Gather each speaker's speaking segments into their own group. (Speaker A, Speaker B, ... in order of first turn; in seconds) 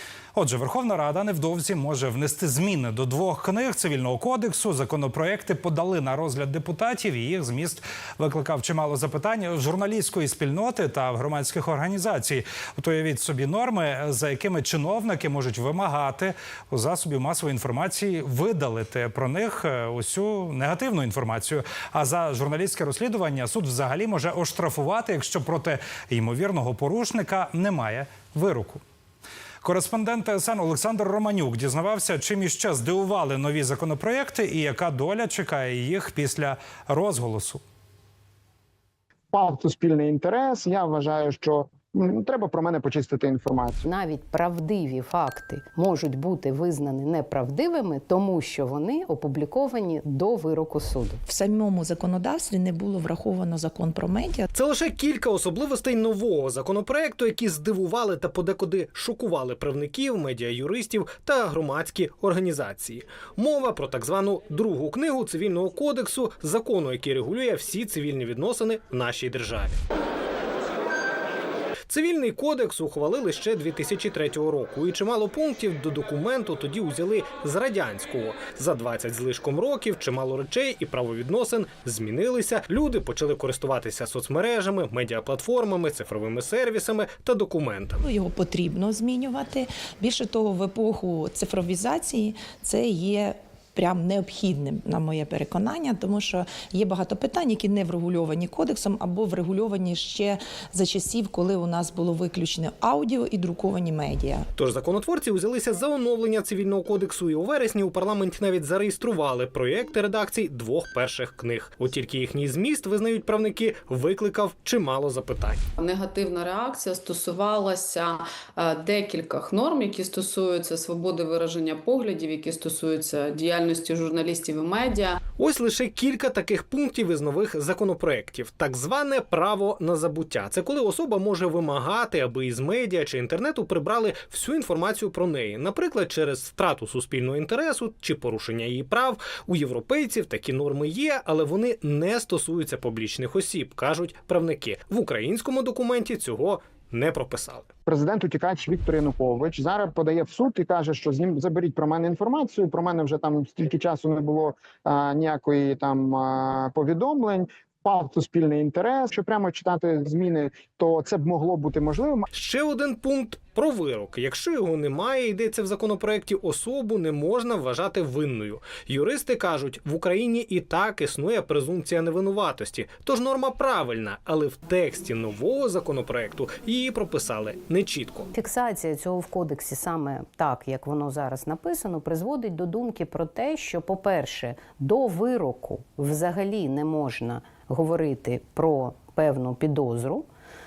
Speaker A: 0.3-28.8, 29.6-37.6
Speaker B: 39.3-43.9, 147.9-162.3
Speaker C: 43.9-51.2, 178.3-190.3
Speaker D: 51.3-54.5, 88.0-104.5
Speaker E: 54.5-69.8, 71.9-88.0, 104.6-115.6, 125.4-147.7, 162.3-178.3
Speaker F: 115.8-125.2